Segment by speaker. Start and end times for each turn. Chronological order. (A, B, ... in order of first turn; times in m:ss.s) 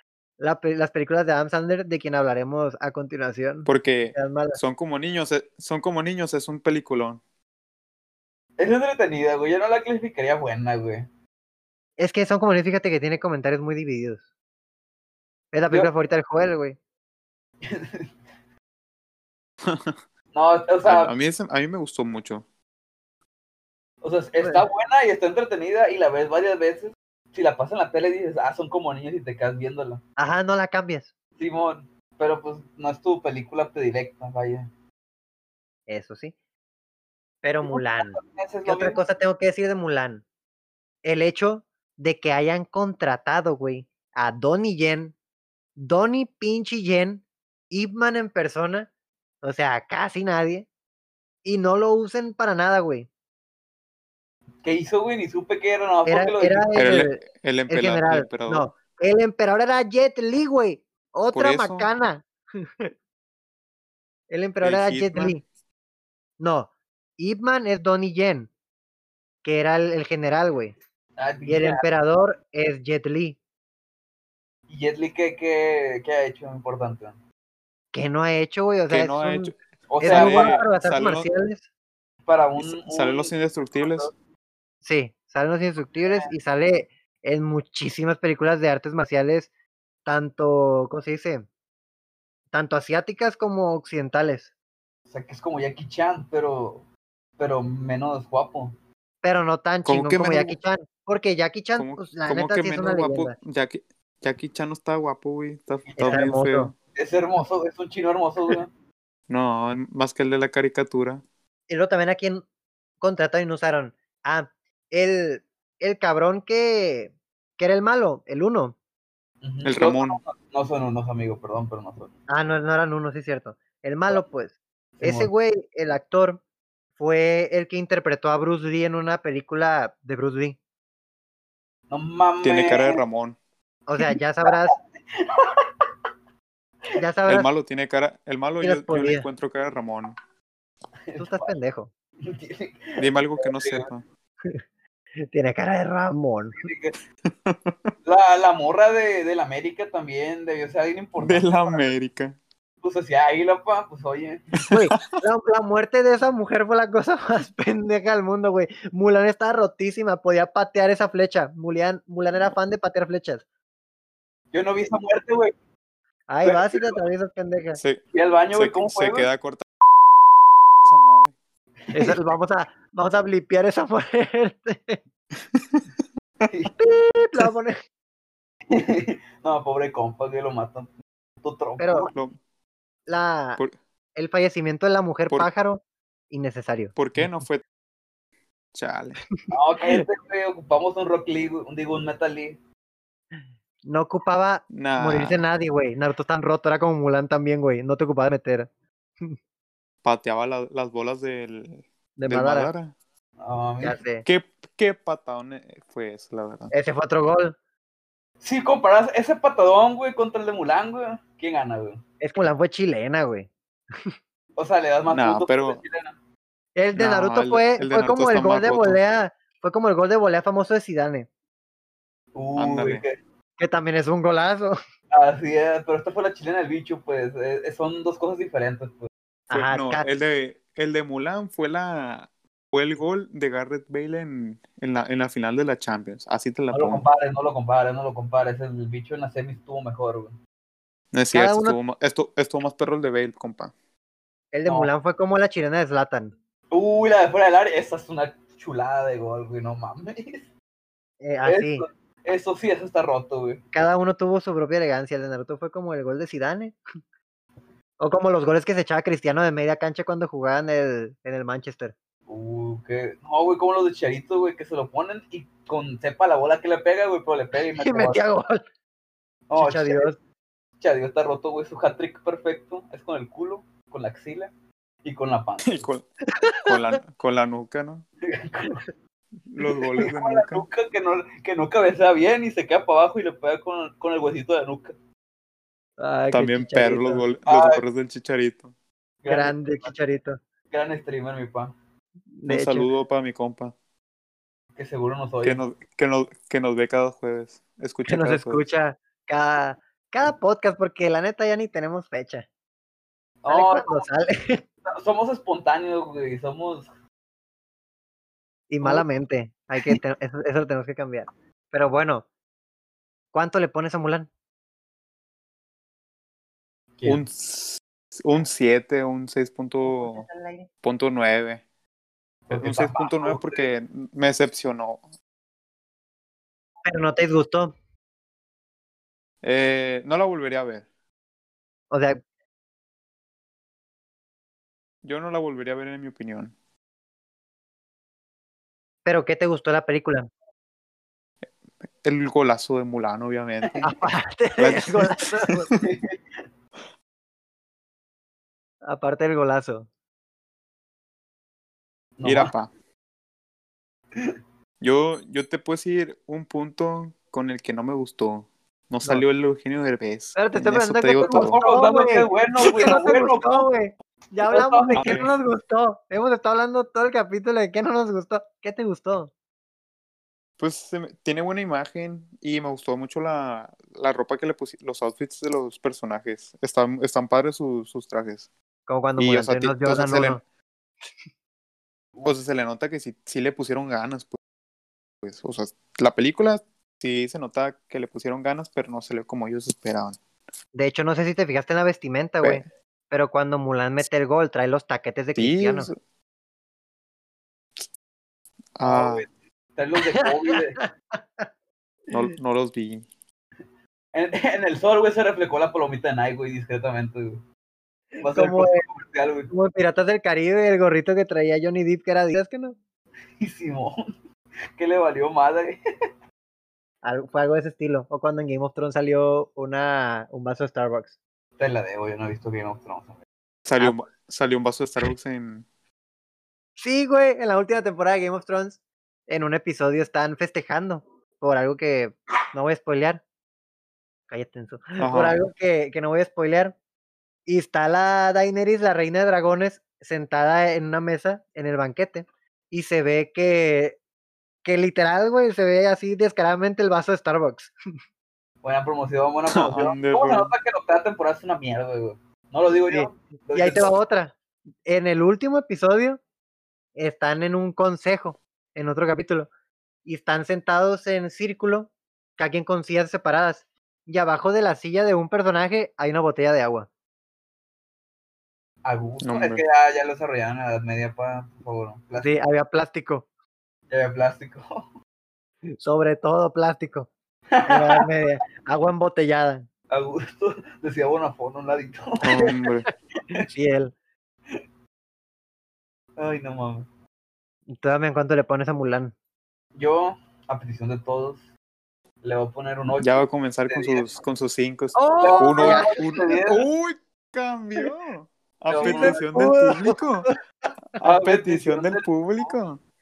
0:00.4-0:04.6 A
0:03.6-0:07.2 B
0:08.6-0:11.1 C
0:12.0-0:14.2 A
0:15.5-0:16.8 A
0:17.6-0:18.1 C
0:19.6-0:20.0 B
0:20.3-0:21.1 C
0:20.8-0:22.4 B
0:24.0-0:30.0 C
0:30.2-0:31.1 A
0:31.4-0:34.7 C
0:35.9-0:36.3 A
0:37.4-0:40.2 A
0:37.6-0:39.0 C
0:41.0-0:45.2 A
0:45.8-0:48.9 A
0:49.4-0:50.7 A
0:51.4-0:53.1 A
0:54.6-0:56.7 C
0:56.1-1:02.9 A
0:56.8-0:58.7 B
1:01.3-1:01.9 B
1:04.3-1:05.4 A
1:04.6-1:05.4 B
1:06.4-1:08.5 A
1:09.4-1:10.8 A
1:11.2-1:11.8 C
1:11.5-1:13.4 A
1:14.7-1:17.2 C
1:17.9-1:21.6 A
1:18.9-1:21.3 B
1:19.9-1:20.6 C
1:22.3-1:24.1 C
1:22.6-1:24.1 B
1:24.8-1:29.5 A
1:26.0-1:26.3 C
1:30.1-1:31.5 A
1:32.5-1:34.5 A
1:35.1-1:36.9 C
1:37.4-1:38.8 C
1:39.2-1:43.4 A
1:39.8-1:40.6 B
1:41.8-1:46.7 B
1:45.9-1:46.3 C
1:46.0-1:46.7 A
1:47.0-1:48.7 C
1:49.3-1:51.2 B
1:51.7-1:52.4 A
1:53.0-1:58.8 A
1:59.4-2:02.1 C
1:59.6-2:00.2 B
2:02.3-2:06.4 A
2:05.0-2:05.3 C
2:07.0-2:10.6 A
2:11.9-2:13.0 C
2:12.4-2:13.4 B
2:13.9-2:14.8 A
2:14.0-2:14.6 C
2:15.2-2:15.5 C
2:17.0-2:17.5 A
2:17.3-2:20.2 B
2:18.6-2:19.3 A
2:21.1-2:21.5 C
2:21.2-2:21.9 A
2:22.2-2:23.9 C
2:23.0-2:24.0 B
2:25.2-2:26.6 A
2:26.6-2:27.0 C
2:27.5-2:27.9 B
2:28.0-2:31.9 C
2:31.2-2:32.4 B
2:32.8-2:34.5 C
2:34.6-2:35.1 B
2:34.7-2:43.4 A
2:44.5-2:45.5 C
2:46.3-2:47.8 A
2:46.4-2:47.0 C
2:48.1-2:49.3 C
2:48.5-2:49.7 B
2:50.8-2:51.3 B
2:51.9-2:52.2 C
2:51.9-2:55.0 A
2:55.5-2:55.8 B
2:56.5-2:56.8 C
2:56.8-2:57.8 A
2:58.7-3:00.9 C
3:01.4-3:02.1 C
3:01.8-3:02.1 A
3:03.1-3:03.6 A
3:04.2-3:07.0 A
3:07.0-3:07.6 B
3:08.7-3:09.2 B
3:09.5-3:12.6 C
3:13.3-3:18.7 A
3:14.7-3:15.4 B
3:20.0-3:22.9 B
3:22.2-3:22.7 A
3:23.4-3:24.0 C
3:23.8-3:24.2 A
3:24.2-3:26.7 B
3:26.7-3:27.6 A
3:28.4-3:32.0 C
3:32.2-3:34.1 A
3:34.6-3:36.2 C
3:35.1-3:35.8 B
3:36.8-3:41.3 A
3:36.9-3:39.0 B
3:42.4-3:43.2 C
3:42.6-3:43.0 B
3:43.6-3:44.8 A
3:45.1-3:49.1 C
3:49.5-3:57.1 B
3:49.5-3:50.0 A
3:56.7-4:00.4 C
4:01.1-4:03.7 B
4:01.3-4:01.8 A
4:04.5-4:06.3 A
4:04.7-4:04.9 C
4:06.7-4:10.5 C
4:11.2-4:11.8 A
4:11.5-4:13.6 C
4:13.7-4:16.8 A
4:18.0-4:21.9 A
4:22.3-4:28.2 C
4:27.8-4:28.6 A
4:29.5-4:30.2 C
4:29.6-4:30.2 A
4:30.8-4:34.5 C
4:35.0-4:35.9 C
4:35.6-4:36.0 B
4:36.5-4:36.8 A
4:36.6-4:38.1 B
4:38.3-4:38.9 C
4:39.5-4:40.7 B
4:40.0-4:45.0 C
4:46.0-4:47.2 A
4:46.3-4:48.7 B
4:47.5-4:47.8 C
4:49.2-4:49.9 C
4:49.3-4:50.4 A
4:50.7-4:51.7 C
4:52.3-4:52.9 A
4:52.5-4:53.7 B
4:54.8-4:55.6 C
4:55.4-4:58.6 B
4:58.1-5:02.4 A
5:03.4-5:04.1 C
5:03.5-5:04.6 A
5:04.9-5:06.9 C
5:08.7-5:12.2 A
5:13.3-5:14.3 A
5:17.0-5:17.2 C
5:17.0-5:20.3 B
5:19.8-5:20.7 A
5:20.8-5:21.6 B
5:22.5-5:23.7 C
5:22.5-5:25.0 B
5:26.8-5:27.7 A
5:29.4-5:30.8 B
5:31.9-5:32.2 A
5:35.0-5:36.5 B
5:39.0-5:40.3 A
5:42.0-5:43.9 B
5:43.6-5:43.9 C
5:43.8-5:45.7 A
5:44.6-5:45.8 B
5:45.8-5:46.2 C
5:48.8-5:49.9 A
5:52.2-5:52.5 C
5:52.2-5:52.7 B
5:54.8-6:01.6 B
6:00.4-6:09.3 A
6:01.2-6:03.7 C
6:04.4-6:05.3 C
6:05.0-6:05.3 B
6:10.6-6:18.5 B
6:18.9-6:20.4 A
6:19.2-6:20.4 B
6:22.2-6:24.4 B
6:25.2-6:30.2 B
6:30.7-6:35.9 A
6:35.4-6:36.0 B
6:38.8-6:39.3 B
6:38.8-6:40.8 C
6:40.8-6:41.5 A
6:42.1-6:43.1 B
6:44.1-6:47.4 C
6:48.2-6:49.5 C
6:48.3-6:48.8 A
6:49.5-6:52.8 A
6:53.4-6:54.1 C
6:54.8-6:55.8 C
6:57.0-7:01.2 A
7:01.6-7:03.2 C
7:03.7-7:05.6 B
7:06.8-7:13.2 A
7:14.3-7:16.8 A
7:15.0-7:15.4 B
7:17.5-7:24.0 A
7:24.6-7:27.7 A
7:28.6-7:33.9 C
7:29.5-7:30.5 B
7:32.9-7:34.3 A
7:34.8-7:36.2 A
7:37.0-7:39.5 A
7:40.0-7:46.9 A
7:48.8-7:52.4 C
7:49.2-7:49.6 B
7:52.2-7:53.3 A
7:53.9-7:54.9 C
7:55.8-7:57.1 A
7:57.5-7:58.1 C
7:57.7-7:59.7 A
7:59.9-8:02.6 C
8:02.2-8:02.9 B
8:03.2-8:03.5 C
8:03.4-8:03.9 A
8:06.2-8:06.9 C
8:07.7-8:09.1 A
8:09.8-8:11.5 C
8:12.2-8:14.1 C
8:13.0-8:20.3 B
8:15.0-8:16.2 A
8:15.2-8:16.7 C
8:18.7-8:19.2 C
8:18.8-8:20.3 A
8:21.0-8:22.8 B
8:21.0-8:22.6 C